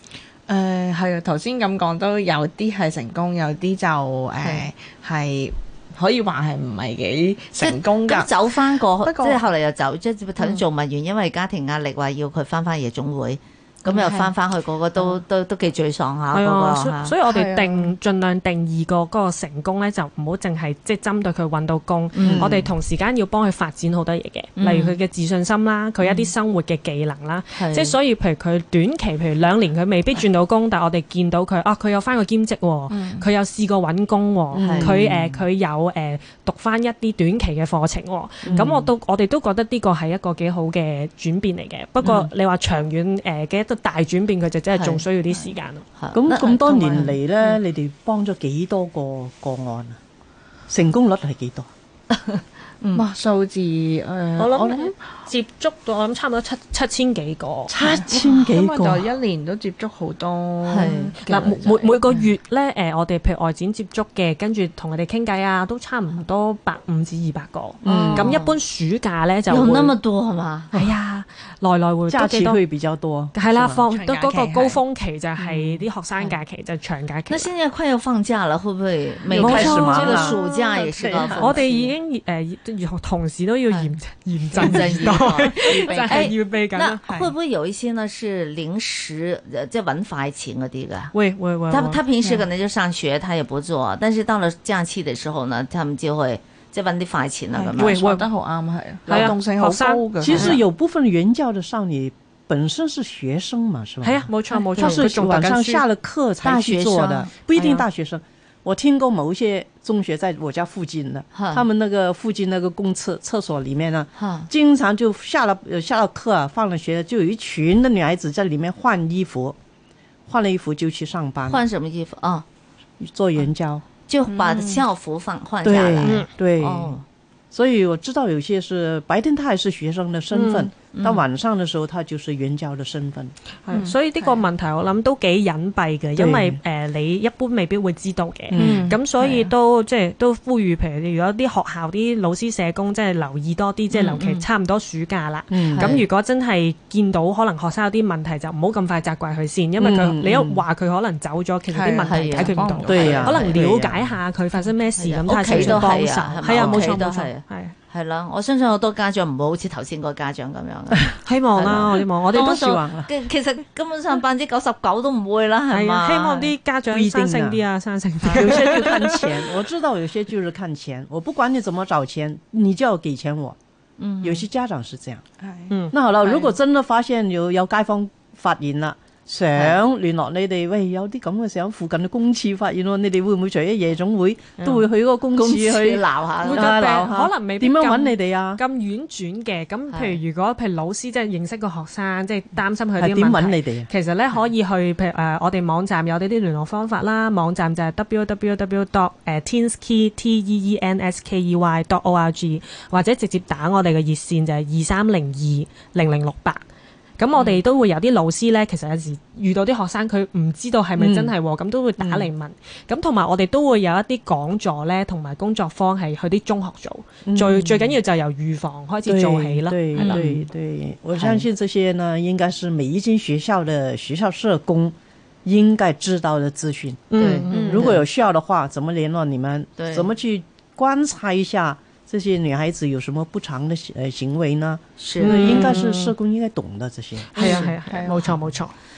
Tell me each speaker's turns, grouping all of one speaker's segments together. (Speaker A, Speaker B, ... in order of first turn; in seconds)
Speaker A: 0.5-9.4, 10.4-10.6, 13.8-14.3, 17.2-17.9, 32.9-33.2, 53.0-55.0, 57.8-62.3, 73.9-74.8, 97.5-100.6, 124.3-124.8, 133.7-134.3, 138.5-139.5, 151.7-153.4, 175.4-175.7, 237.4-238.4
Speaker B: 4.4-4.7, 7.6-17.1, 22.1-22.7, 24.6-25.0, 26.0-26.3, 27.6-28.0, 34.6-34.9, 38.5-38.8, 44.7-45.0, 46.0-47.6, 52.1-53.0, 60.7-61.2, 67.8-68.5, 69.5-70.7, 75.4-76.4, 77.3-81.9, 83.7-84.0, 84.5-91.1, 91.7-98.0, 104.8-105.0, 106.4-107.3, 111.3-111.7, 114.2-114.5, 121.5-122.5, 124.1-127.0, 130.9-131.2, 143.9-144.4, 145.7-146.1, 152.0-153.6, 155.0-166.5, 174.0-174.5, 176.2-176.5, 179.5-179.8, 185.3-186.8, 189.9-190.2, 220.0-220.4, 221.1-221.4, 227.2-228.0, 229.8-230.1, 235.0-235.8, 237.4-237.8
Speaker C: 16.3-45.8, 54.4-57.7, 61.3-70.0, 70.7-72.6, 73.3-77.5, 79.3-87.3, 91.1-92.0, 97.8-98.3, 99.1-100.6, 104.0-105.8, 107.5-107.9, 126.0-126.3, 130.3-130.7, 133.7-157.8, 161.2-162.6, 165.7-169.6, 175.7-175.9, 184.6-184.8, 186.4-206.6, 207.2-220.2, 227.1-227.9, 235.2-236.2, 237.3-238.7
Speaker D: 22.2-22.7, 34.5-35.4, 38.4-38.8, 42.0-42.3, 46.1-50.0, 50.7-51.7, 57.7-59.1, 67.8-68.3, 70.7-71.0, 72.1-73.8, 79.3-80.4, 81.0-81.6, 100.2-119.6, 120.3-121.6, 123.0-123.8, 125.6-126.9, 127.5-133.3, 136.2-136.6, 138.5-138.9, 145.5-146.0, 149.8-150.6, 152.9-154.2, 155.5-155.9, 156.5-156.9, 162.3-163.1, 166.9-167.6, 168.2-173.6, 174.2-175.2, 175.9-188.6, 193.0-193.9, 211.0-211.3, 212.0-212.3, 217.2-218.0, 219.0-237.7